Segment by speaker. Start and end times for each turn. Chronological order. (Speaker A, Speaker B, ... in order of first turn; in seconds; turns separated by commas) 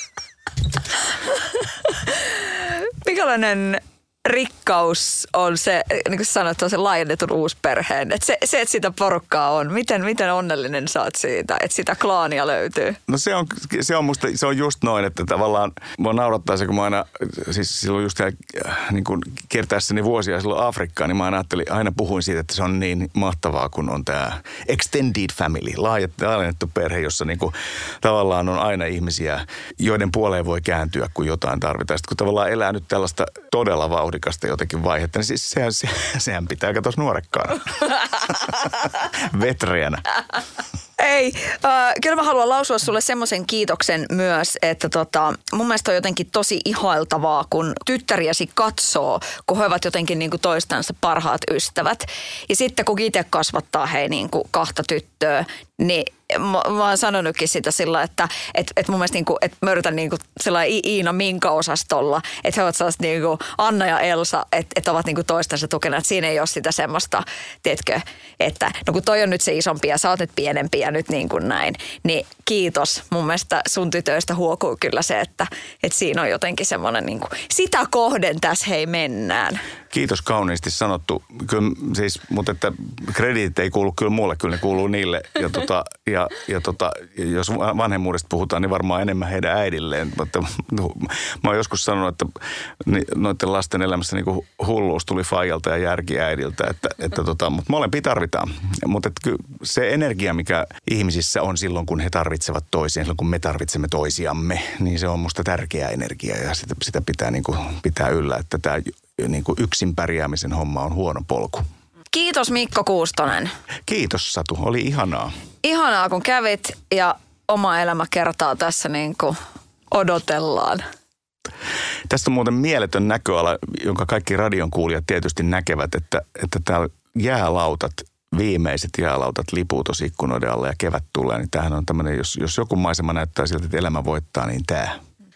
Speaker A: 2.0-13.0, Speaker B: 13.1-40.0, Speaker A: 41.0-79.6, Speaker B: 79.9-111.7, Speaker A: 112.1-113.5, Speaker B: 113.8-115.3, Speaker A: 115.6-119.4, Speaker A: 119.9-120.8, Speaker B: 122.1-135.0